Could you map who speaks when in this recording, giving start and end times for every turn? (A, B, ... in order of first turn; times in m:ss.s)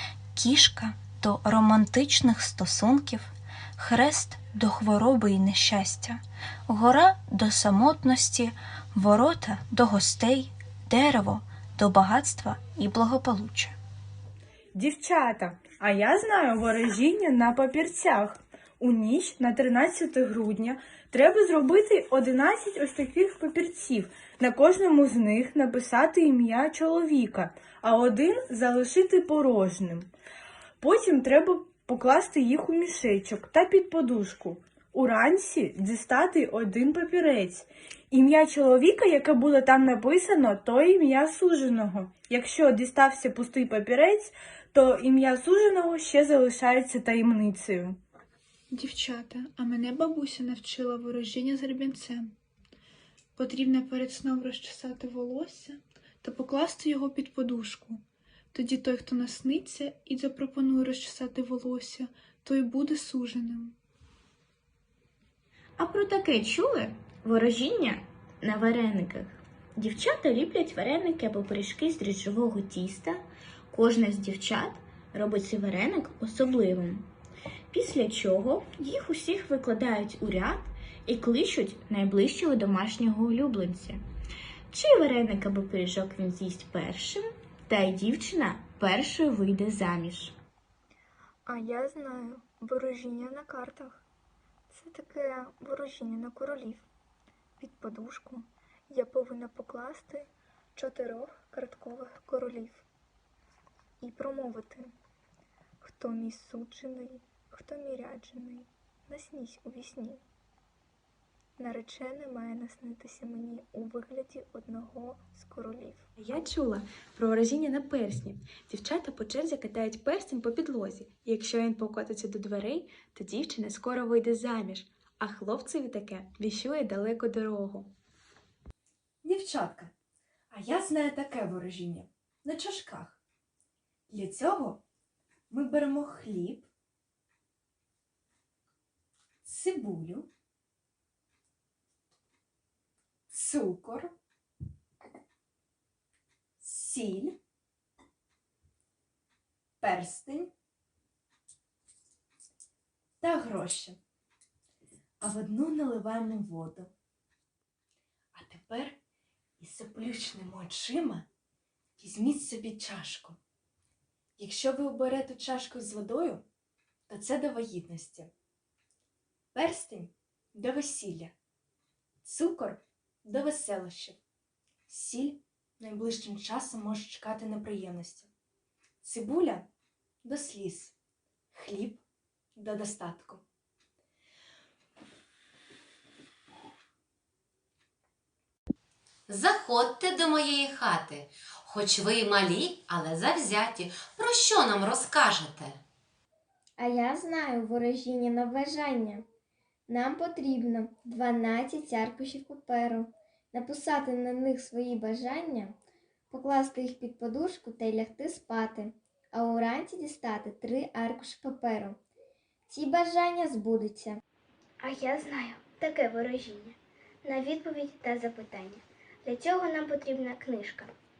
0:00.4-0:13.8 A
0:14.7-0:30.1 B
0:30.8-0:48.0 B
0:48.7-0:52.3 C
0:53.4-0:58.0 C
0:58.5-1:03.7 C
1:05.8-1:17.1 D
1:17.7-1:24.0 D
1:24.7-1:30.4 D
1:31.5-1:34.0 E
1:34.7-1:36.9 E
1:37.6-1:42.8 E
1:44.0-1:44.9 E
1:45.8-1:50.2 E
1:51.6-1:56.0 E
1:56.2-2:07.9 F
2:09.2-2:09.9 G
2:10.5-2:13.2 G
2:14.1-2:14.8 G
2:15.5-2:16.7 G
2:19.4-2:20.3 G
2:23.3-2:24.1 G
2:26.6-2:27.4 G
2:29.8-2:30.5 G
2:33.2-2:34.0 G
2:35.2-2:36.9 G
2:38.3-2:39.0 G
2:39.6-2:41.3 G
2:42.0-2:43.4 G
2:44.4-2:46.4 G
2:47.1-2:48.3 G
2:49.5-2:51.3 G
2:52.2-2:54.2 G
2:54.9-2:58.3 G
2:59.0-2:59.7 G
3:00.2-3:01.0 G
3:01.5-3:02.0 G
3:02.6-3:03.4 G
3:09.3-3:15.8 H
3:16.8-3:19.2 I
3:19.9-3:25.8 I
3:26.3-3:32.0 I
3:32.7-3:34.2 I
3:34.8-3:40.9 J